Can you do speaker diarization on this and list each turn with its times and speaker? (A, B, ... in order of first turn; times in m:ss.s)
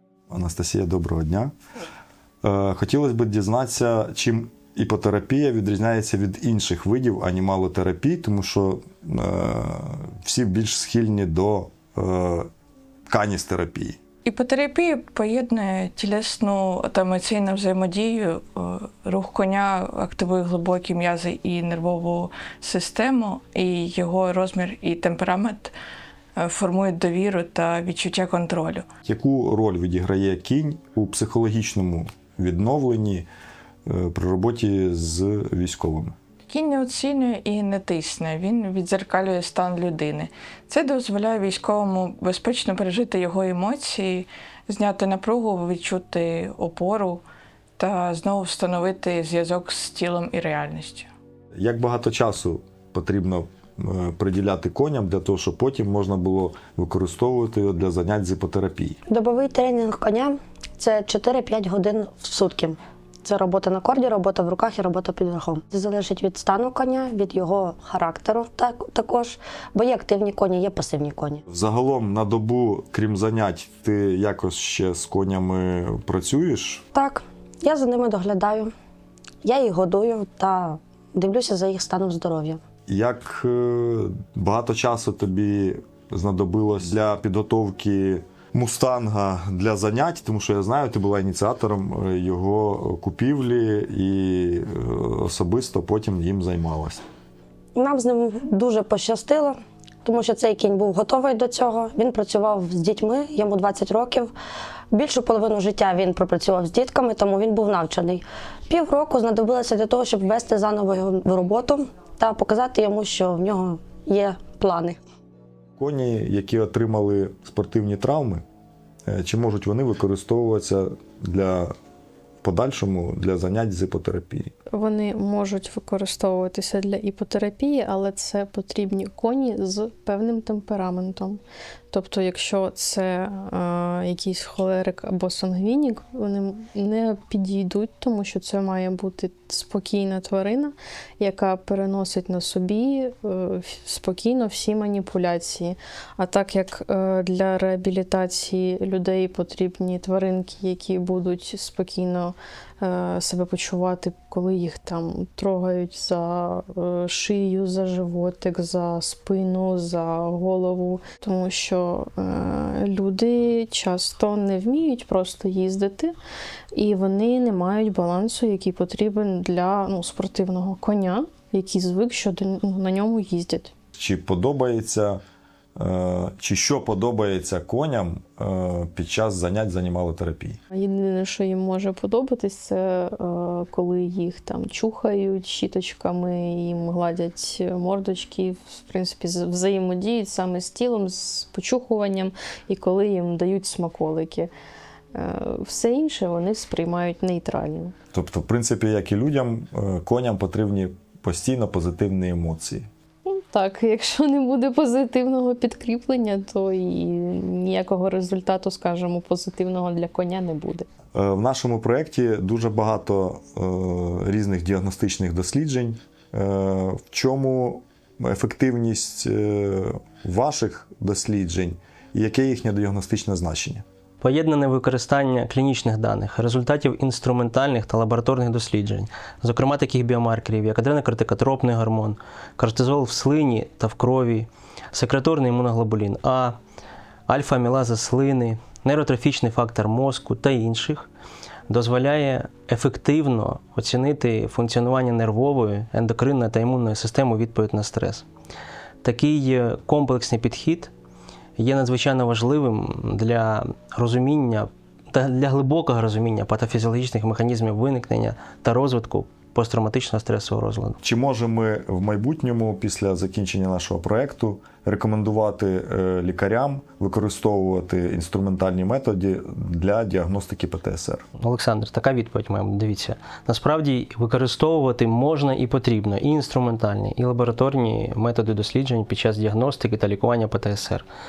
0:00.3-0:01.5 A
0:02.4-0:12.5 A
0:13.1-0:14.0 A
0:14.2-0:25.7 B
0:26.4-0:28.9 B
0:29.0-0:33.3 A
0:33.9-0:36.2 A
0:36.5-0:47.2 B
0:47.8-0:51.1 B
0:51.6-0:59.0 A
0:59.1-1:11.4 C
1:11.5-1:16.8 A
1:16.9-1:18.7 C
1:19.4-1:22.6 C
1:22.9-1:37.0 A
1:37.8-1:44.3 C
1:44.9-1:55.0 C
1:55.8-1:58.4 A
1:59.1-2:01.7 A
2:02.4-2:04.5 A
2:04.7-2:11.4 D
2:11.9-2:46.1 D
2:46.7-2:53.7 D
2:54.0-2:55.2 A
2:55.8-3:00.6 A
3:00.7-3:14.5 D
3:15.2-3:17.9 D
3:18.1-3:22.9 A
3:23.3-3:30.9 D
3:31.2-3:43.8 A
3:44.2-3:56.6 E
3:57.3-4:01.1 E
4:01.7-4:08.2 E
4:09.0-4:10.9 E
4:11.6-4:21.0 E
4:21.0-4:31.2 A
4:31.4-4:41.0 E